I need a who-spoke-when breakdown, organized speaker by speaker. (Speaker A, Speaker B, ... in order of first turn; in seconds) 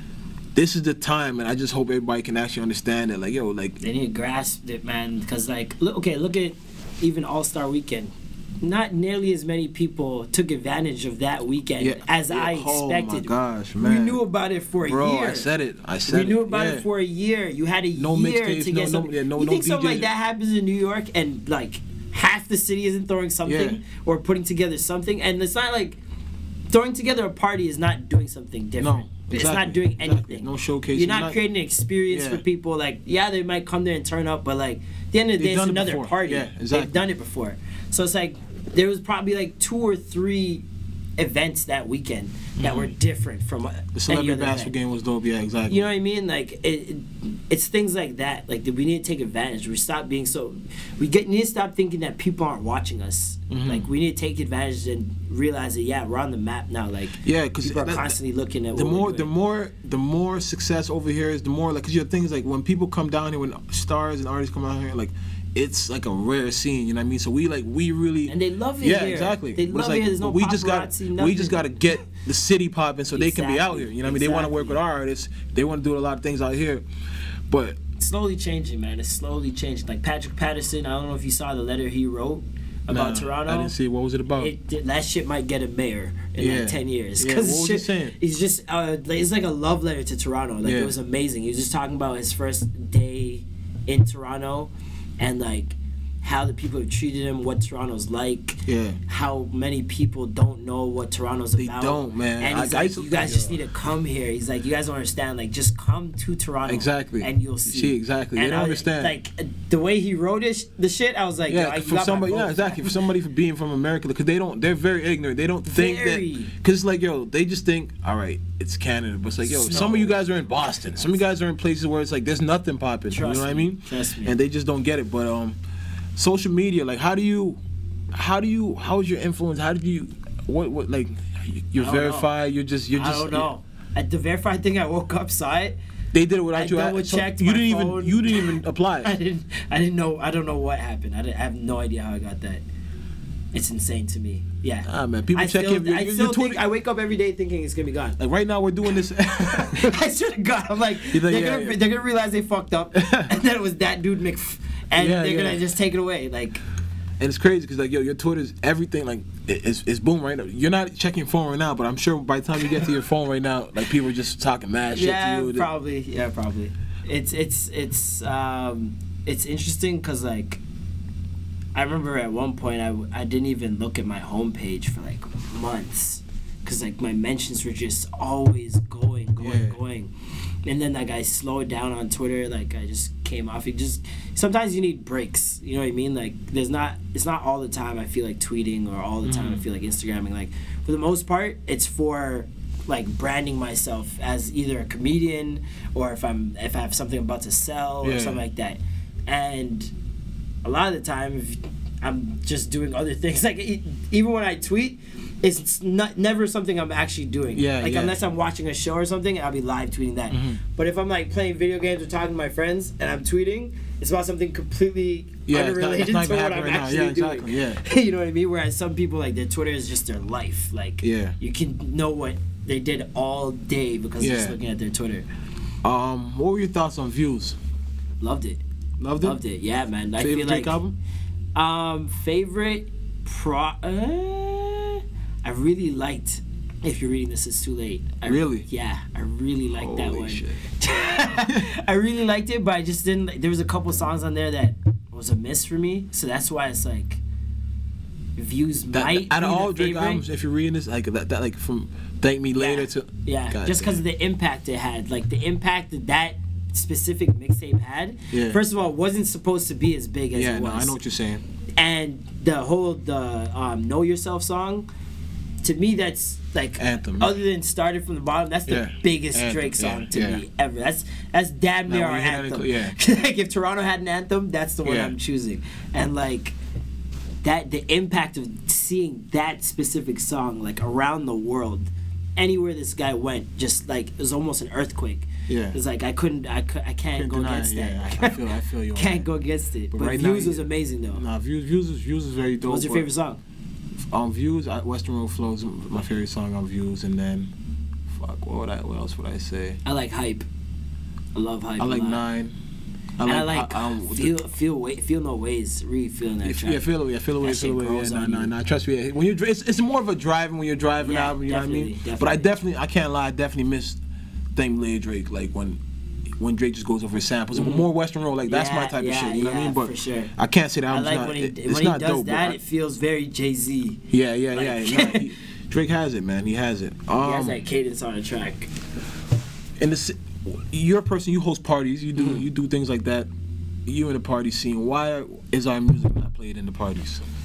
Speaker A: 0.6-3.8, 11.8-14.2, 14.8-16.9, 17.9-20.1, 23.4-23.8, 28.8-31.4, 32.1-32.4, 35.4-37.0, 42.6-42.9, 44.0-45.9, 53.5-53.9, 57.2-58.2, 58.7-76.8, 77.5-77.8, 82.9-84.5, 86.4-88.2, 90.6-90.9, 98.7-99.0, 101.6-103.6, 106.7-109.2, 111.5-125.6, 126.2-127.6, 128.1-133.5, 136.1-139.1, 144.9-146.7, 148.2-150.0, 151.0-151.8, 153.0-153.3, 155.0-155.7, 157.2-165.7, 179.4-179.8, 189.2-189.6, 198.0-198.4, 207.6-208.2, 210.3-210.6, 215.5-217.8, 221.0-221.4, 224.2-224.6, 225.8-227.6, 229.0-229.4, 230.2-231.0, 238.3-238.7, 239.7-240.6, 248.9-254.0, 258.3-258.6, 260.3-261.4, 266.8-267.4, 268.7-270.4, 271.9-272.9, 274.8-275.2, 285.5-285.8, 287.1-289.3, 289.9-293.1, 294.0-297.5, 298.1-299.8, 301.8-302.5, 303.2-304.3, 306.4-314.0, 314.6-315.8, 316.4-322.6, 324.1-327.6, 329.8-333.3, 333.9-337.2
Speaker B: 3.8-15.5, 16.1-26.0, 26.7-40.6, 41.2-44.7, 45.7-59.3, 68.3-71.7, 73.1-74.8, 78.0-83.8, 84.4-113.0, 115.7-116.5, 119.4-120.2, 123.1-124.3, 131.8-132.3, 132.9-135.8, 136.5-142.6, 143.5-148.2, 149.4-156.6, 164.9-170.6, 171.8-180.1, 180.7-199.9, 200.6-225.3, 228.2-228.6, 229.2-230.8, 231.6-247.2, 248.4-250.2, 252.6-261.0, 261.8-264.9, 265.6-276.6, 277.4-288.4, 288.9-291.2, 292.6-293.4, 299.8-300.4, 301.4-302.2, 303.2-308.5, 311.0-312.5, 317.6-317.8, 318.5-320.3, 320.9-325.3, 327.2-328.7, 332.2-332.4